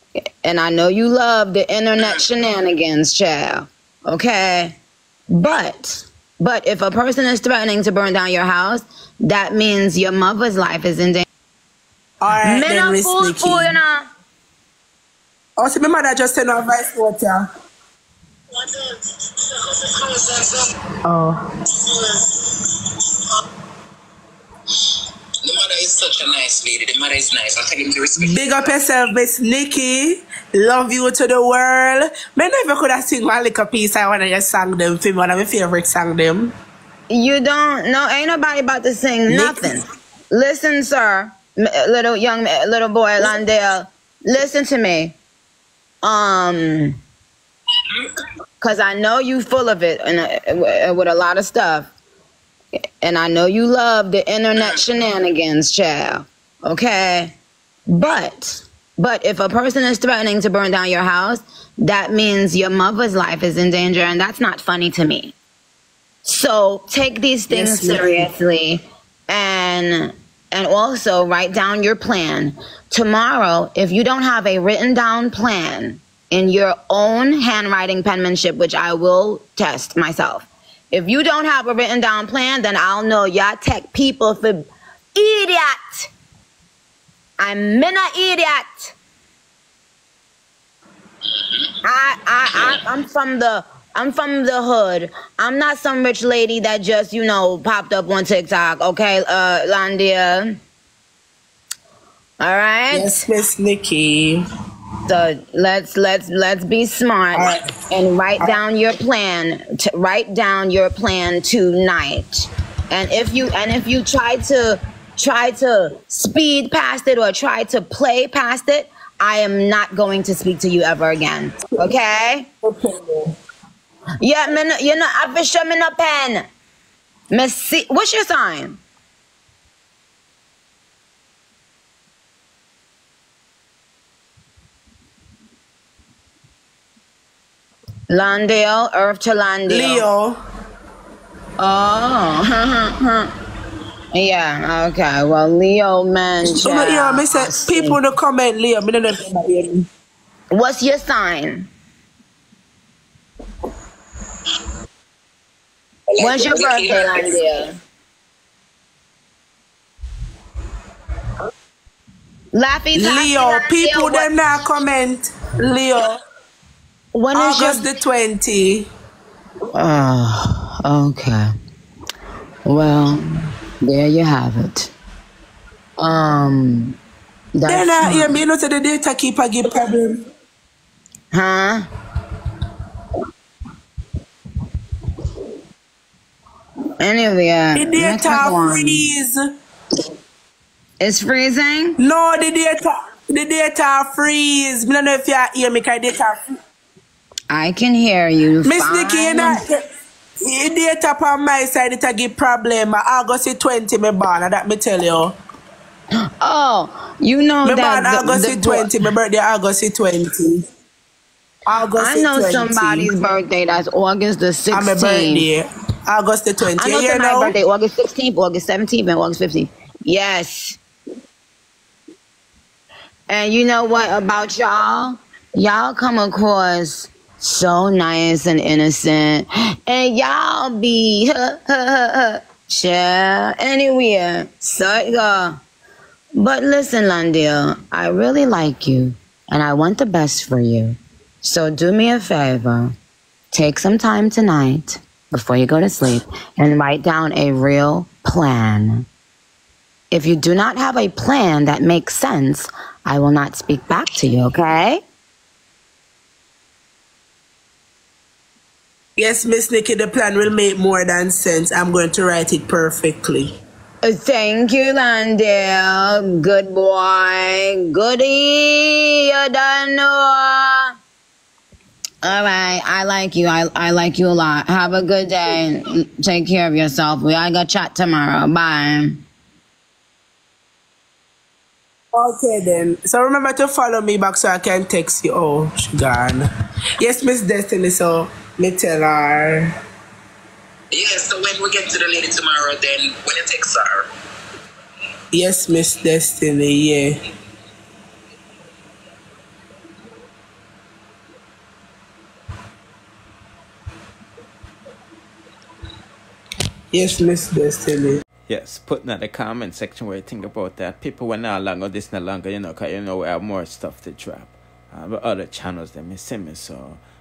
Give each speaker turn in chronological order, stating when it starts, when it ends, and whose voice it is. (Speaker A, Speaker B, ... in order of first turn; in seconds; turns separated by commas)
Speaker A: 0.4-4.8, Speaker A: 5.3-11.2, Speaker B: 12.2-13.8, Speaker A: 12.4-14.1, Speaker B: 15.6-17.5, Speaker C: 20.0-20.5, Speaker B: 21.1-21.4, Speaker C: 25.4-28.7, Speaker B: 28.2-36.5, Speaker A: 37.1-45.2, Speaker B: 39.3-39.8, Speaker A: 46.0-47.0, Speaker A: 48.6-51.9, Speaker A: 53.0-57.3, Speaker A: 57.9-65.3, Speaker A: 66.2-84.7, Speaker B: 67.5-68.2, Speaker A: 85.2-86.1, Speaker A: 87.4-88.9, Speaker A: 91.8-100.6, Speaker A: 102.4-103.2, Speaker B: 102.9-104.4, Speaker A: 105.1-122.5, Speaker B: 107.3-107.7, Speaker B: 122.6-123.4, Speaker A: 124.2-126.4, Speaker A: 127.3-128.8, Speaker A: 138.1-140.1, Speaker B: 139.7-140.4, Speaker A: 141.6-143.3, Speaker A: 144.1-148.0, Speaker B: 146.4-149.9, Speaker A: 150.5-151.7, Speaker C: 156.1-157.3, Speaker A: 156.2-157.8, Speaker A: 162.5-164.3, Speaker B: 162.9-166.2, Speaker A: 167.1-167.9, Speaker B: 167.3-168.9, Speaker A: 169.7-171.5, Speaker A: 172.7-173.2, Speaker A: 173.8-174.9, Speaker A: 176.0-176.9, Speaker A: 177.6-178.4, Speaker B: 177.7-180.2, Speaker A: 181.3-181.8, Speaker A: 187.0-189.1, Speaker B: 187.8-189.4, Speaker A: 191.0-192.0, Speaker B: 192.0-196.4, Speaker A: 197.5-199.6, Speaker B: 198.6-199.8, Speaker B: 200.4-205.4, Speaker A: 206.4-208.9, Speaker B: 207.6-210.7, Speaker B: 211.7-213.1, Speaker A: 212.0-215.5, Speaker B: 214.7-217.6, Speaker A: 216.7-220.8, Speaker A: 223.3-235.6, Speaker A: 236.3-242.9, Speaker A: 243.5-249.1, Speaker A: 250.1-255.0, Speaker B: 259.2-263.6, Speaker A: 264.0-270.9, Speaker A: 272.2-279.2, Speaker B: 282.1-286.5, Speaker B: 287.0-289.7, Speaker C: 290.9-294.1, Speaker B: 295.3-297.2, Speaker B: 306.9-308.2, Speaker D: 308.5-317.0